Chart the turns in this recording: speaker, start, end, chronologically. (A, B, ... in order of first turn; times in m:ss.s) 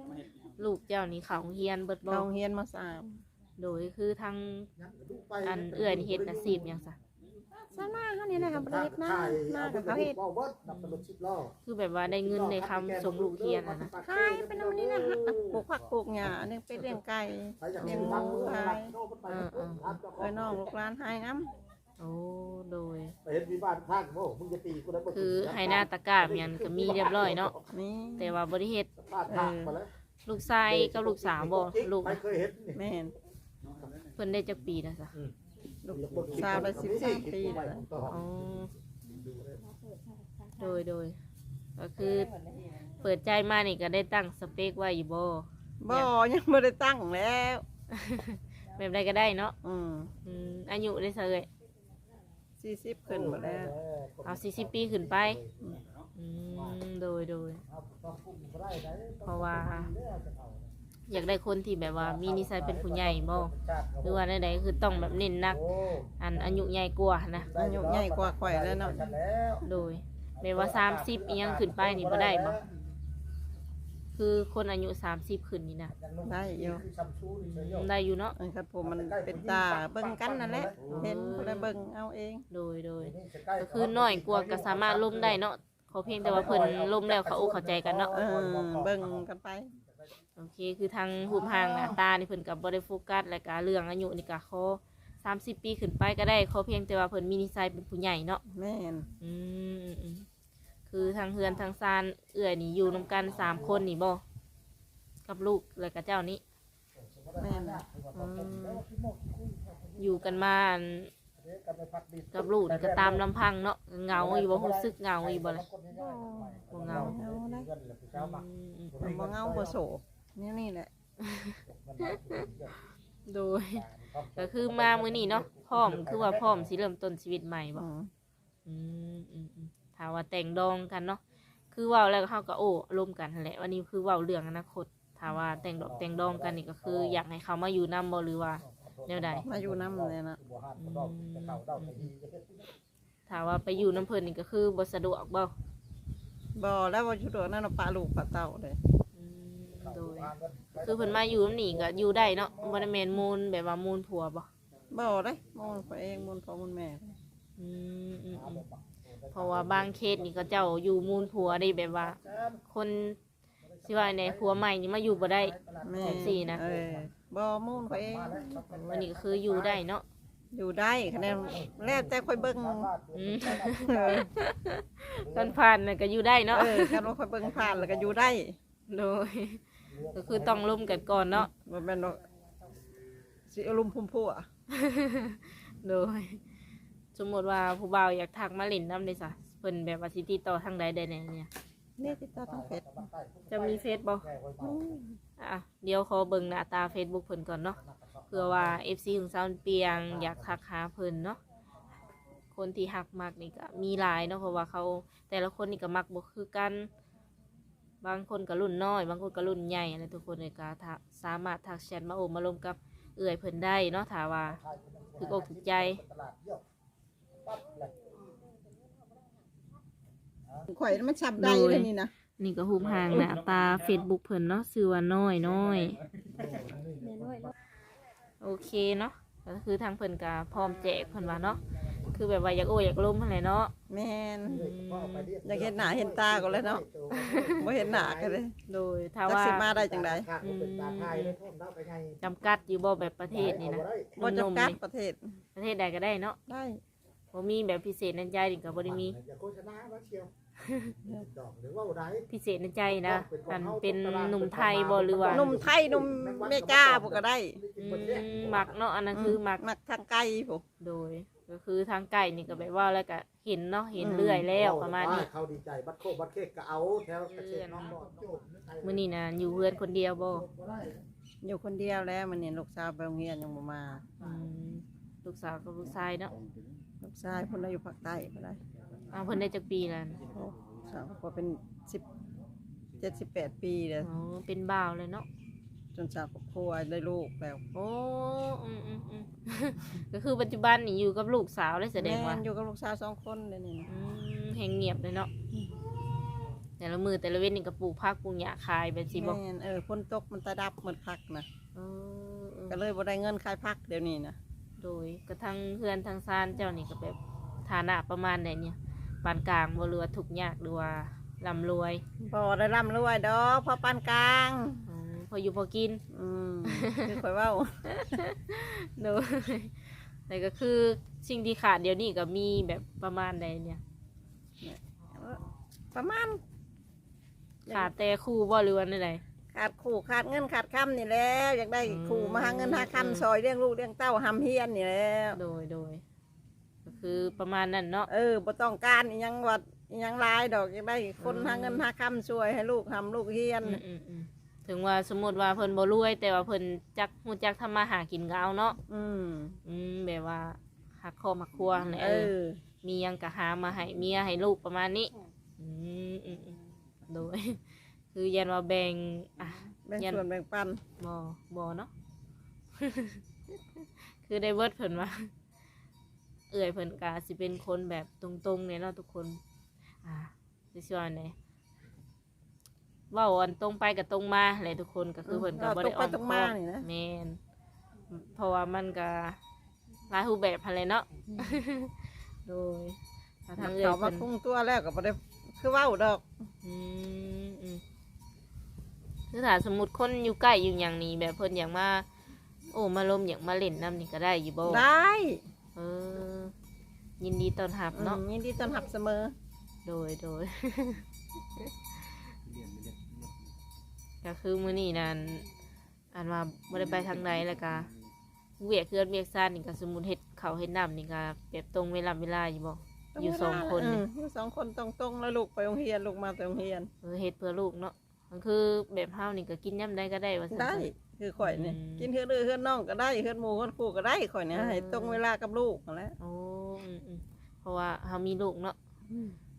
0:00.6-0:02.3 A
0:02.1-0:03.2 B
0:03.6-0:04.7 A
0:04.8-0:06.8 C
0:05.4-0:07.0 A
0:07.6-0:10.2 B
0:08.3-0:15.7 C
0:10.7-0:11.1 A
0:11.6-0:13.9 A
0:14.0-0:19.0 B
0:17.6-0:20.7 C
0:17.8-0:18.3 A
0:19.3-0:20.0 A
0:20.2-0:21.5 B
0:22.0-0:23.2 A
0:23.2-0:27.7 C
0:25.1-0:27.6 A
0:27.7-0:28.4 B
0:28.2-0:28.9 A
0:29.0-0:29.9 C
0:29.3-0:29.8 B
0:30.2-0:32.2 A
0:30.7-0:32.8 C
0:32.7-0:33.2 B
0:34.2-0:35.2 A
0:35.8-0:37.8 B
0:35.9-0:39.6 C
0:38.1-0:38.7 A
0:40.6-0:41.2 A
0:41.8-0:42.3 A
0:43.0-0:46.1 A
0:45.8-0:47.6 B
0:47.9-0:49.6 A
0:49.6-0:50.1 B
0:50.2-0:51.5 A
0:52.6-0:53.8 B
0:53.1-0:55.8 C
0:54.2-0:55.4 A
0:56.2-0:57.6 A
0:56.6-0:56.8 C
0:57.7-1:00.7 C
0:59.2-0:59.9 A
1:01.1-1:05.6 A
1:01.8-1:04.2 C
1:05.2-1:06.6 C
1:06.2-1:07.5 A
1:07.4-1:09.7 C
1:07.6-1:09.1 B
1:09.6-1:12.6 A
1:10.4-1:12.6 C
1:14.2-1:15.9 A
1:15.9-1:17.9 C
1:16.2-1:16.8 B
1:17.4-1:18.4 A
1:18.4-1:22.4 B
1:18.8-1:21.2 C
1:20.8-1:21.7 A
1:22.5-1:28.1 A
1:23.0-1:25.4 C
1:26.1-1:29.2 C
1:28.1-1:29.7 B
1:30.4-1:38.4 A
1:31.2-1:32.0 C
1:38.5-1:39.1 B
1:39.2-1:40.3 A
1:40.9-1:44.2 A
1:43.2-1:43.9 C
1:45.3-1:46.4 A
1:47.0-1:50.4 C
1:47.4-1:47.8 B
1:48.1-1:48.6 A
1:48.5-1:48.8 B
1:50.0-1:51.1 A
1:51.4-1:53.3 C
1:52.3-1:55.7 A
1:54.1-1:59.8 C
1:56.0-1:57.7 B
1:56.7-1:57.2 A
1:58.1-1:59.0 A
1:59.0-2:00.9 B
2:01.2-2:02.4 A
2:01.7-2:02.8 C
2:03.3-2:03.8 A
2:03.7-2:06.7 C
2:04.4-2:07.9 A
2:07.8-2:08.1 B
2:08.7-2:11.2 A
2:11.7-2:19.5 A
2:15.6-2:17.2 C
2:18.7-2:22.7 C
2:19.4-2:20.4 B
2:20.8-2:22.1 A
2:23.3-2:25.5 A
2:26.6-2:28.8 B
2:29.2-2:34.5 A
2:29.8-2:33.0 C
2:34.9-2:37.1 B
2:35.5-2:36.1 C
2:37.6-2:38.6 A
2:38.3-2:42.6 C
2:39.3-2:43.2 A
2:43.6-2:44.6 C
2:43.8-2:46.6 A
2:45.2-2:47.1 C
2:45.8-2:48.6 B
2:47.8-2:49.8 C
2:48.7-2:50.0 A
2:50.5-2:52.9 B
2:51.2-2:54.3 C
2:53.1-2:57.0 A
2:53.9-2:54.2 B
2:55.2-2:55.6 C
2:56.5-2:58.6 B
2:57.4-2:58.4 C
2:58.9-3:01.5 A
2:59.9-3:01.1 C
3:01.3-3:02.2 B
3:03.5-3:04.5 B
3:04.7-3:06.4 A
3:07.1-3:11.5 A
3:12.0-3:13.0 B
3:12.0-3:15.0 C
3:13.5-3:14.3 A
3:14.6-3:15.2 B
3:15.4-3:17.8 A
3:17.8-3:18.8 C
3:18.3-3:21.4 A
3:19.9-3:20.6 C
3:22.5-3:26.9 A
3:28.0-3:34.6 A
3:34.6-3:36.6 C
3:35.2-3:36.0 A
3:37.5-3:38.0 C
3:40.7-3:42.1 B
3:41.4-3:46.0 A
3:46.3-3:47.5 C
3:48.4-3:53.7 A
3:53.9-3:54.5 B
3:54.4-3:55.3 A
3:54.5-3:58.4 C
3:55.4-3:56.8 B
3:57.1-3:57.6 A
3:57.6-3:58.5 B
3:58.7-3:59.7 A
3:59.3-4:00.3 B
3:59.8-4:02.2 C
4:00.4-4:01.4 A
4:02.2-4:04.8 A
4:03.2-4:04.2 C
4:04.2-4:05.4 B
4:05.6-4:06.4 A
4:06.5-4:06.8 B
4:07.3-4:09.2 A
4:08.8-4:12.3 C
4:10.6-4:10.9 A
4:12.3-4:15.5 A
4:12.9-4:18.8 C
4:15.3-4:17.6 B
4:17.8-4:19.6 A
4:19.1-4:20.6 B
4:20.8-4:25.3 A
4:24.0-4:24.5 B
4:24.5-4:31.0 C
4:27.3-4:28.0 A
4:28.8-4:30.4 A
4:31.4-4:34.0 B
4:34.2-4:36.4 A
4:37.0-4:38.6 B
4:39.1-4:40.2 A
4:40.3-4:42.0 B
4:43.0-4:44.1 B
4:44.0-4:45.3 A
4:46.0-4:47.7 B
4:47.8-4:52.4 A
4:52.0-4:53.9 B
4:53.9-4:55.3 A
4:55.6-4:55.9 B
4:56.8-4:59.4 A
4:59.2-5:01.5 B
5:01.8-5:02.8 A
5:02.7-5:04.4 B
5:04.8-5:12.0 A
5:12.3-5:14.9 B
5:14.9-5:16.0 A
5:16.1-5:17.9 B
5:16.7-5:17.1 A
5:17.9-5:23.8 A
5:24.6-5:25.4 B
5:25.9-5:26.4 B
5:27.7-5:27.9 B
5:27.7-5:29.2 A
5:29.5-5:35.4 B
5:31.8-5:33.3 A
5:35.3-5:36.0 A
5:36.8-5:38.1 A
5:38.1-5:43.8 B
5:41.2-5:41.9 A
5:43.6-5:48.8 A
5:48.9-5:49.6 B
5:49.6-6:00.2 A
5:52.0-5:52.6 B
5:59.9-6:00.8 B
6:01.0-6:01.9 A
6:02.8-6:03.2 A
6:03.7-6:05.3 A
6:06.5-6:09.4 A
6:10.0-6:11.4 A
6:13.1-6:17.4 A
6:15.3-6:16.9 B
6:18.1-6:19.4 A
6:20.1-6:24.3 A
6:23.6-6:26.3 B
6:26.6-6:27.8 A
6:29.3-6:32.1 A
6:32.7-6:34.9 A
6:34.6-6:35.4 B
6:35.8-6:36.5 A
6:37.2-6:38.2 A
6:37.9-6:39.4 B
6:39.8-6:41.1 A
6:44.2-6:45.5 A
6:46.1-6:47.9 A
6:48.6-6:54.0 A
6:53.2-6:56.9 B
6:57.0-7:02.1 A
7:00.5-7:06.2 B
7:04.5-7:05.2 A
7:06.2-7:08.8 A